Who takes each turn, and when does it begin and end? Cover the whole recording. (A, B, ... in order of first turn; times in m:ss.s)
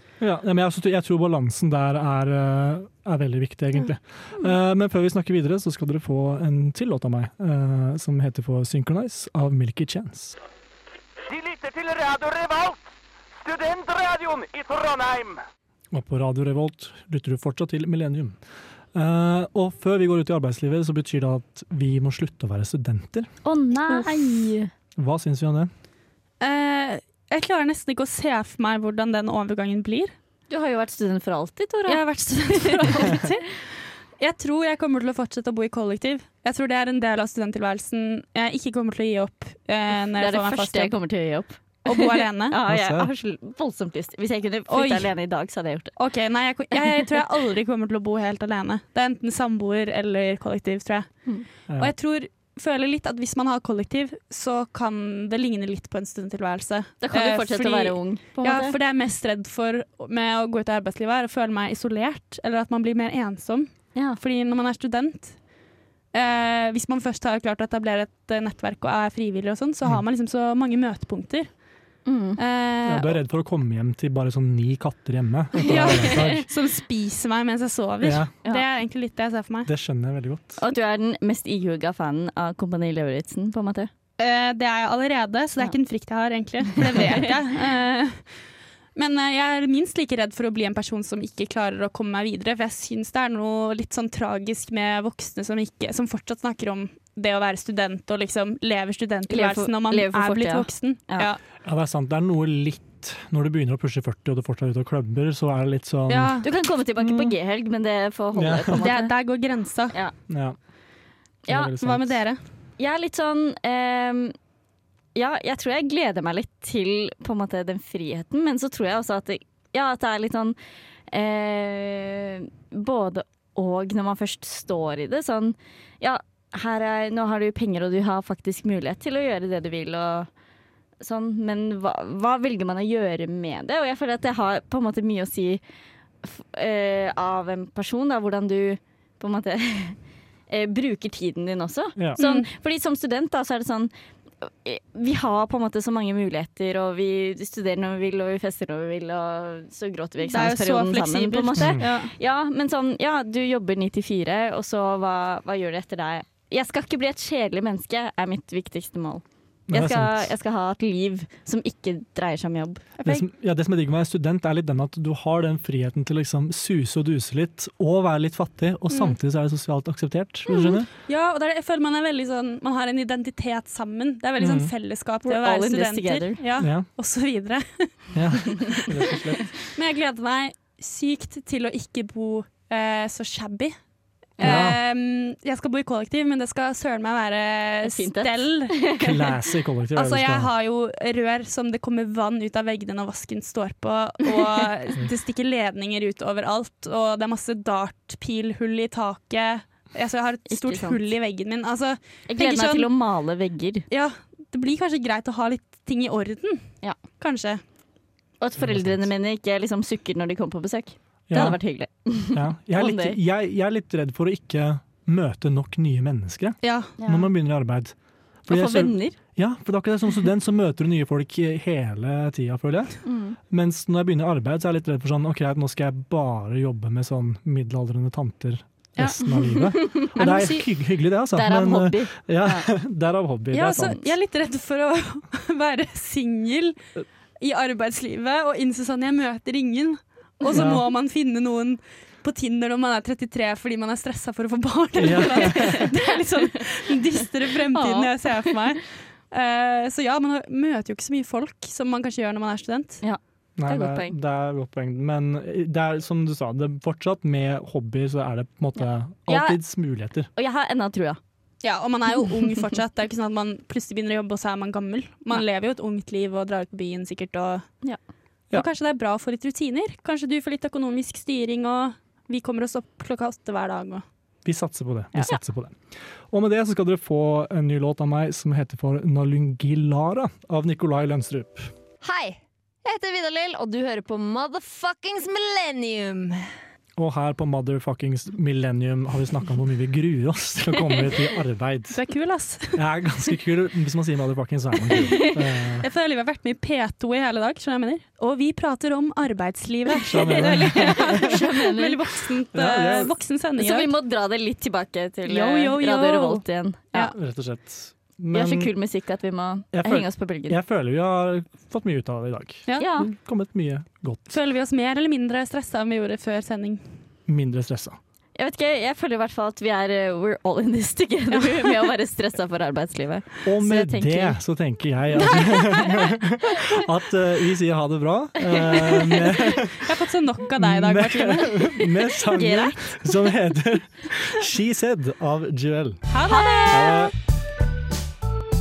0:00.2-0:10.4 A
0:11.3-0:12.8 B
0:13.4-0:15.4 B
0:15.9-0:18.4 A
0:18.9-0:23.3 A
0:23.4-0:24.7 C
0:23.9-0:24.3 D
0:25.0-0:25.7 A
0:26.4-0:30.1 D
0:30.5-0:33.3 C
0:31.8-0:41.0 D
0:40.2-0:45.9 C
0:41.8-0:42.6 D
0:42.6-0:43.1 A
0:44.7-0:45.1 D
0:46.0-1:05.5 D
0:57.0-0:58.8 C
1:06.1-1:11.6 D
1:12.0-1:12.4 C
1:12.4-1:13.1 D
1:12.8-1:16.4 A
1:15.6-1:19.7 D
1:15.7-1:16.4 C
1:18.0-1:18.3 A
1:19.6-1:20.6 A
1:20.6-1:23.9 C
1:24.2-1:28.4 D
1:29.0-1:41.4 D
1:39.3-1:41.3 C
1:41.6-1:46.4 A
1:46.1-1:46.5 D
1:46.4-1:49.2 C
1:48.3-1:48.8 A
1:48.8-1:50.0 D
1:50.3-1:50.6 A
1:51.5-1:51.7 C
1:51.5-1:52.2 A
1:51.8-1:52.4 D
1:52.8-1:54.3 C
1:55.1-2:00.6 C
2:01.1-2:10.3 C
2:11.0-2:15.6 C
2:16.2-2:20.0 C
2:20.5-2:23.9 C
2:22.2-2:22.5 D
2:24.4-2:42.8 C
2:30.2-2:32.1 D
2:31.6-2:31.9 A
2:39.7-2:40.3 A
2:43.0-2:43.2 D
2:43.0-2:50.9 A
2:48.9-2:49.2 D
2:50.6-2:58.9 D
2:54.4-2:54.7 A
2:55.2-2:56.4 C
2:56.6-2:56.9 A
2:58.1-2:59.5 A
2:59.6-3:03.8 D
3:04.4-3:08.8 D
3:04.4-3:04.8 A
3:04.4-3:04.7 C
3:07.8-3:09.1 C
3:09.0-3:10.5 A
3:09.9-3:22.9 D
3:20.5-3:21.0 C
3:22.3-3:23.9 C
3:23.9-3:27.6 D
3:28.4-3:33.2 C
3:28.6-3:29.1 A
3:31.3-3:31.6 A
3:32.3-3:54.0 A
3:36.6-3:36.9 D
3:37.0-3:37.3 C
3:38.5-3:39.2 C
3:43.0-3:43.4 C
3:49.0-3:50.7 D
3:49.5-3:50.1 C
3:51.3-3:52.7 C
3:53.5-3:56.8 D
3:57.4-4:13.0 D
4:00.4-4:00.7 C
4:00.5-4:00.8 A
4:05.0-4:05.8 A
4:05.5-4:05.8 C
4:07.7-4:08.6 C
4:13.0-4:14.2 C
4:13.6-4:20.3 A
4:19.2-4:21.2 C
4:21.6-4:27.8 D
4:28.5-4:34.0 D
4:34.4-4:41.7 A
4:42.0-4:46.5 E
4:47.0-4:52.0 A
4:51.9-4:52.8 D
4:52.7-4:55.9 A
4:55.8-5:03.9 D
5:00.0-5:01.3 A
5:00.3-5:02.0 C
5:02.5-5:03.1 A
5:03.6-5:06.9 C
5:05.3-5:07.1 D
5:06.9-5:08.7 A
5:08.3-5:10.6 C
5:09.7-5:14.4 A
5:12.6-5:12.9 D
5:12.8-5:13.1 C
5:14.3-5:17.0 D
5:17.3-5:18.0 A
5:18.4-5:24.4 C
5:23.4-5:29.9 A
5:25.2-5:25.9 C
5:25.3-5:25.8 D
5:29.8-5:31.8 D
5:30.6-5:36.1 A
5:32.3-5:33.0 C
5:36.1-5:36.6 E
5:36.3-5:36.7 C
5:36.3-5:36.6 D
5:36.7-5:37.1 A